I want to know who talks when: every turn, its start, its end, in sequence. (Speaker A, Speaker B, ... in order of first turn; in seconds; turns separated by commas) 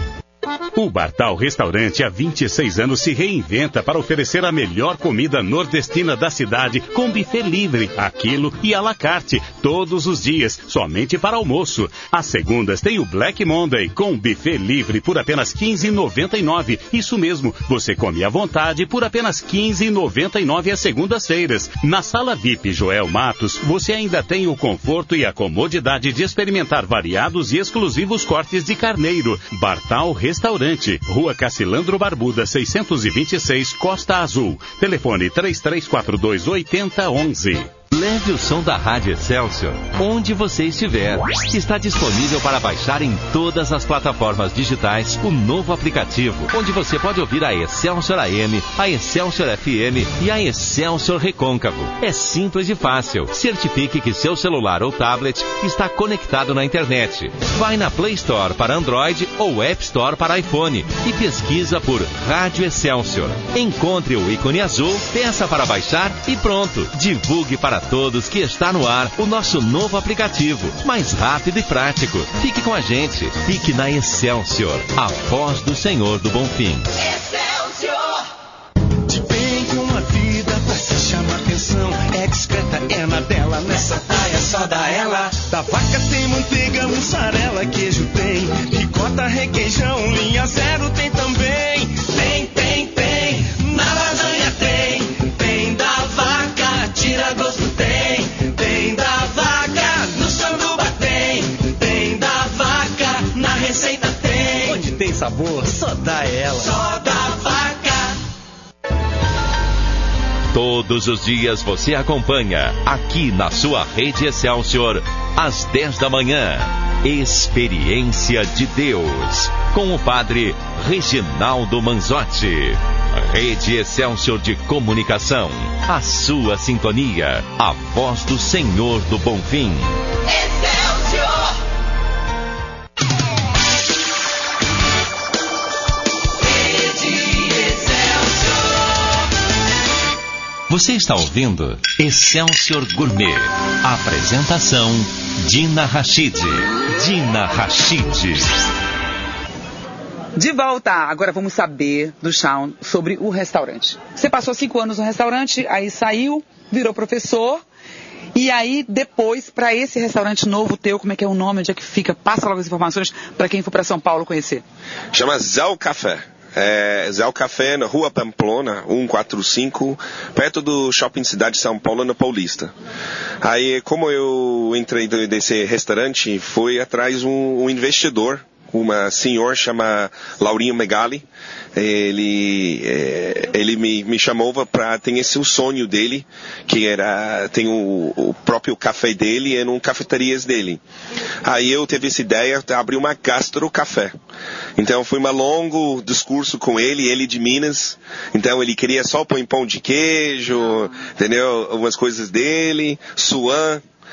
Speaker A: 0.8-37.7, Speaker B: 37.9-76.9, Speaker C: 77.2-78.1, Speaker C: 79.1-104.8, Speaker D: 104.7-106.7, Speaker C: 106.6-108.1, Speaker B: 110.5-130.0, Speaker C: 130.7-131.2, Speaker C: 137.1-137.9, Speaker B: 140.7-148.5, Speaker E: 150.4-157.6, Speaker E: 158.3-164.6, Speaker F: 165.1-172.7, Speaker F: 173.4-190.8, Speaker F: 191.4-194.2, Speaker F: 194.8-203.8